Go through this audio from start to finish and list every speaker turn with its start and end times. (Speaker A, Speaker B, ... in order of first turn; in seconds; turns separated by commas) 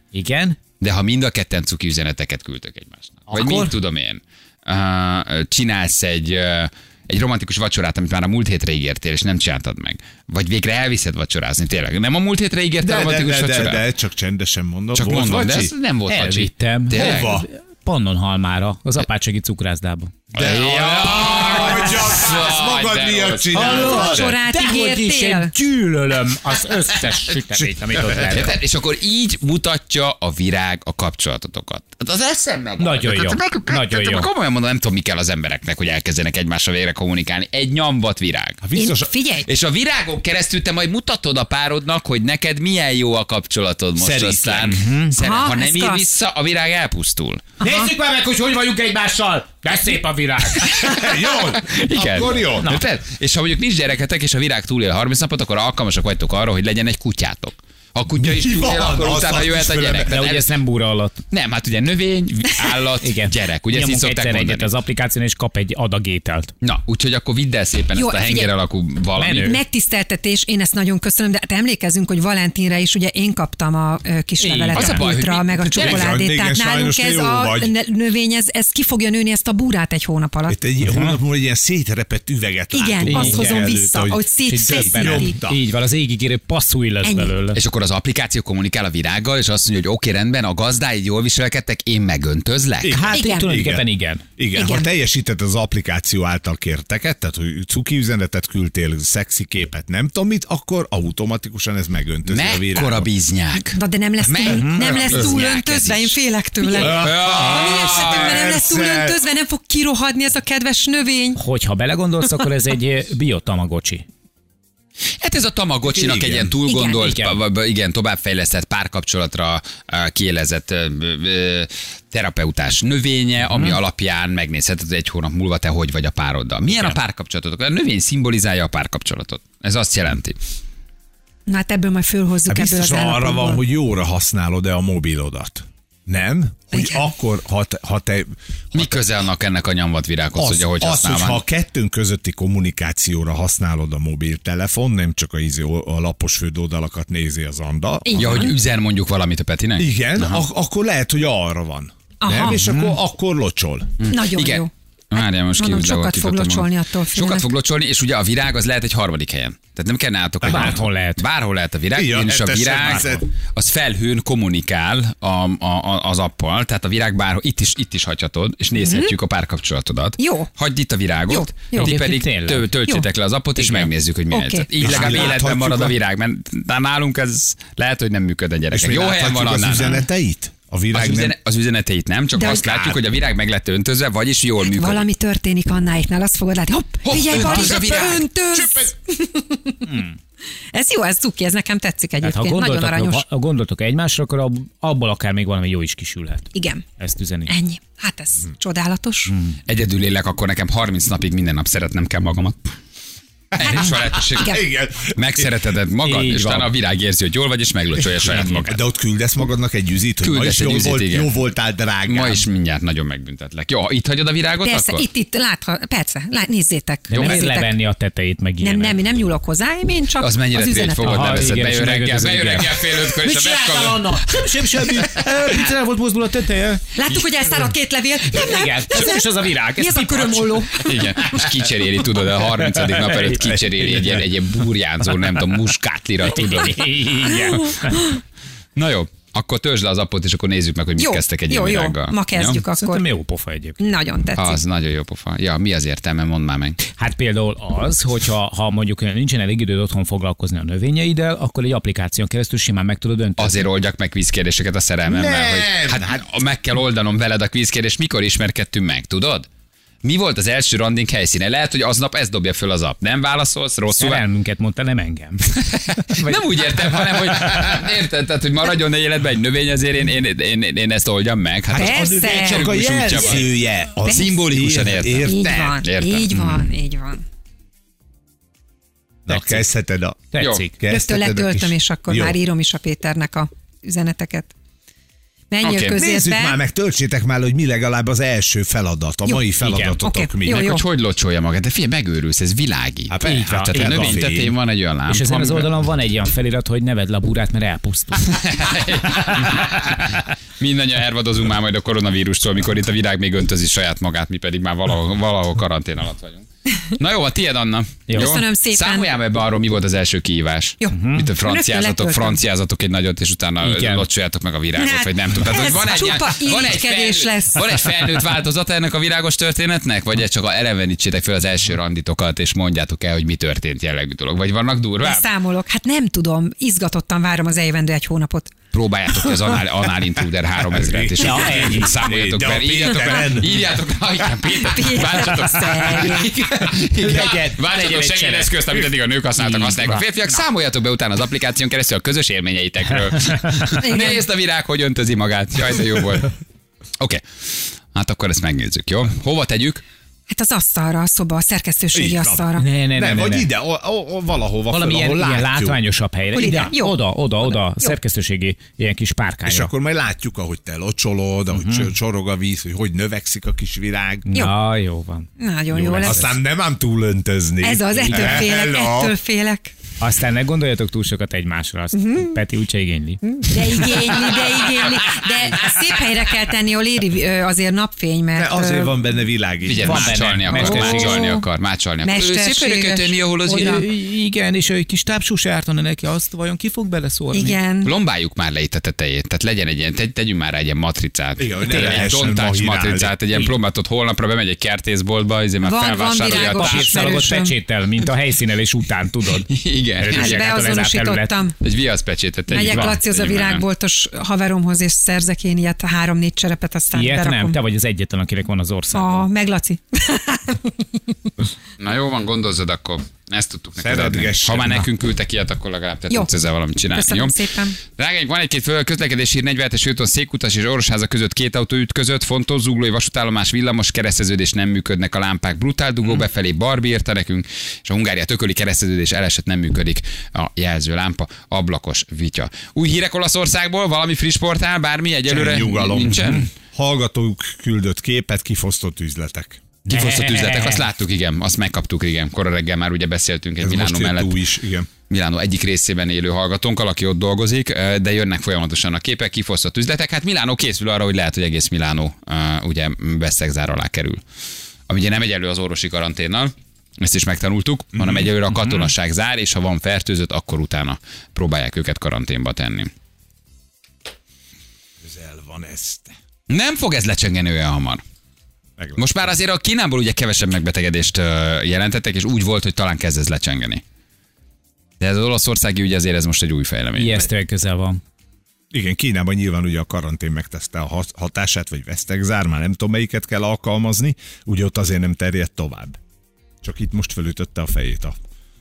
Speaker A: 0.1-0.6, Speaker B: 0.8-13.8, Speaker A: 3.3-3.8, Speaker C: 12.8-15.7, Speaker B: 14.9-17.4, Speaker A: 16.1-20.1, Speaker C: 16.9-17.5, Speaker B: 20.3-24.0, Speaker C: 20.4-24.4, Speaker A: 23.5-28.6, Speaker D: 23.8-25.5, Speaker B: 28.2-38.6, Speaker A: 32.8-34.3, Speaker C: 38.6-39.1, Speaker D: 38.8-39.5, Speaker B: 39.5-47.4, Speaker C: 44.0-44.8, Speaker A: 44.6-45.2, Speaker D: 45.2-46.0, Speaker A: 47.6-50.8, Speaker D: 47.6-47.9, Speaker B: 50.6-60.5, Speaker C: 50.8-52.8, Speaker C: 58.1-60.2, Speaker A: 60.0-61.2, Speaker B: 61.3-64.7, Speaker A: 62.9-66.5, Speaker B: 66.6-69.6, Speaker D: 68.0-68.5, Speaker A: 69.2-69.6, Speaker D: 69.4-80.6, Speaker A: 74.4-75.1, Speaker B: 74.7-76.2, Speaker C: 75.7-77.7, Speaker C: 80.5-85.6, Speaker A: 80.9-81.2, Speaker D: 82.7-85.4, Speaker A: 83.1-83.7, Speaker A: 84.5-87.6, Speaker D: 87.0-87.3, Speaker B: 87.5-93.2, Speaker C: 92.8-93.9, Speaker D: 93.1-93.6, Speaker A: 93.2-94.3, Speaker C: 94.4-103.1, Speaker D: 94.5-94.9, Speaker B: 102.3-108.7, Speaker D: 103.7-111.4, Speaker A: 104.5-105.3, Speaker C: 106.7-109.2, Speaker A: 111.4-114.0, Speaker B: 115.2-130.4, Speaker C: 115.9-116.5, Speaker D: 116.7-117.1, Speaker A: 117.0-117.4, Speaker A: 123.4-123.8, Speaker A: 126.7-127.0, Speaker D: 131.5-133.6, Speaker C: 132.5-139.0, Speaker D: 136.7-137.1, Speaker B: 138.7-141.4, Speaker C: 140.4-148.5, Speaker D: 148.1-148.6, Speaker B: 148.2-150.4, Speaker C: 149.8-153.9, Speaker D: 152.2-152.6, Speaker A: 152.5-153.0, Speaker B: 154.0-179.9, Speaker D: 154.1-157.5, Speaker C: 160.4-160.8, Speaker A: 160.4-161.2, Speaker C: 161.9-163.2, Speaker D: 168.8-169.2, Speaker D: 170.2-170.5, Speaker D: 171.3-171.9, Speaker A: 171.8-172.7, Speaker A: 173.6-173.9, Speaker D: 174.3-175.3, Speaker C: 174.8-176.0, Speaker C: 178.7-181.4, Speaker B: 180.9-185.1, Speaker D: 182.4-182.8, Speaker C: 182.7-183.0, Speaker D: 184.7-189.8, Speaker B: 187.0-188.3, Speaker C: 187.6-188.0, Speaker C: 188.5-188.9, Speaker A: 189.9-190.2, Speaker D: 190.7-193.2, Speaker A: 192.2-197.5, Speaker D: 196.5-196.8, Speaker D: 197.5-199.3, Speaker A: 199.3-199.6, Speaker B: 199.7-202.8, Speaker C: 203.5-205.6, Speaker B: 203.6-208.8, Speaker D: 203.6-204.6, Speaker A: 206.0-206.7, Speaker A: 208.2-208.7, Speaker C: 208.3-212.4, Speaker B: 210.2-211.3, Speaker B: 212.1-215.1, Speaker D: 214.6-217.8, Speaker B: 217.1-217.5, Speaker A: 217.1-219.0, Speaker D: 218.6-221.2, Speaker B: 220.2-225.0, Speaker A: 221.0-227.7, Speaker D: 227.0-230.9, Speaker A: 228.3-230.7, Speaker B: 230.7-236.9, Speaker A: 232.5-234.2, Speaker A: 236.2-238.2, Speaker B: 238.8-242.6, Speaker D: 241.0-243.0, Speaker A: 242.7-243.8, Speaker D: 243.8-244.6, Speaker B: 244.4-246.8, Speaker A: 247.0-253.7, Speaker B: 253.4-259.5, Speaker C: 255.1-256.2, Speaker B: 260.0-264.2, Speaker A: 263.9-265.4, Speaker B: 265.6-276.5, Speaker A: 266.1-267.7, Speaker C: 271.7-275.8, Speaker D: 271.8-273.4, Speaker D: 275.2-277.2, Speaker C: 279.3-282.4, Speaker A: 279.3-279.6, Speaker A: 280.3-280.8, Speaker B: 280.4-280.6, Speaker D: 280.9-284.5, Speaker D: 285.5-286.6, Speaker B: 285.6-286.0, Speaker C: 285.9-290.8, Speaker A: 289.6-290.0, Speaker D: 290.0-290.8, Speaker B: 290.4-295.7, Speaker C: 293.1-294.5, Speaker A: 293.2-294.3, Speaker A: 295.1-298.3, Speaker B: 298.3-325.3, Speaker A: 308.1-308.4, Speaker D: 308.2-309.1, Speaker D: 310.8-312.4, Speaker A: 310.9-311.3, Speaker A: 313.6-314.1, Speaker D: 314.8-317.9, Speaker D: 325.0-328.5, Speaker B: 328.7-346.3, Speaker C: 330.7-333.6, Speaker A: 331.2-332.1, Speaker D: 334.5-336.3, Speaker A: 336.9-338.8, Speaker A: 339.4-340.0, Speaker D: 343.8-344.3, Speaker B: 347.9-349.8, Speaker D: 350.3-352.6, Speaker C: 351.9-355.8, Speaker A: 352.6-353.5, Speaker A: 354.7-359.7, Speaker D: 356.3-358.0, Speaker C: 359.5-364.3, Speaker A: 361.5-361.9, Speaker A: 364.3-366.3, Speaker D: 365.4-366.3, Speaker C: 365.7-369.1, Speaker D: 367.6-369.7, Speaker A: 367.9-368.5, Speaker A: 370.0-375.7, Speaker D: 371.9-372.4, Speaker D: 373.3-379.0, Speaker C: 378.4-380.3, Speaker B: 379.6-383.8, Speaker A: 379.8-381.4, Speaker D: 380.5-381.5, Speaker D: 382.0-383.9, Speaker A: 383.5-387.6, Speaker D: 387.3-387.9, Speaker B: 387.8-397.2, Speaker C: 391.4-393.1, Speaker A: 391.7-392.4, Speaker D: 395.6-397.6, Speaker A: 396.2-401.3, Speaker B: 399.5-400.5, Speaker D: 400.1-401.6, Speaker B: 401.6-403.6, Speaker D: 402.5-407.6, Speaker A: 402.6-403.0, Speaker A: 406.9-409.3, Speaker D: 408.9-411.0, Speaker B: 411.8-436.5, Speaker C: 413.8-414.9, Speaker D: 416.9-417.8, Speaker C: 435.3-439.6, Speaker A: 436.0-436.5, Speaker A: 439.9-440.8, Speaker B: 439.9-444.4, Speaker C: 443.6-444.9, Speaker B: 445.1-454.2, Speaker B: 454.9-462.9, Speaker C: 457.9-458.3, Speaker C: 465.0-466.1, Speaker B: 466.5-468.0, Speaker C: 468.8-469.3, Speaker B: 469.0-473.8, Speaker B: 475.0-477.3, Speaker A: 476.9-478.0, Speaker C: 478.7-486.0, Speaker C: 486.6-488.2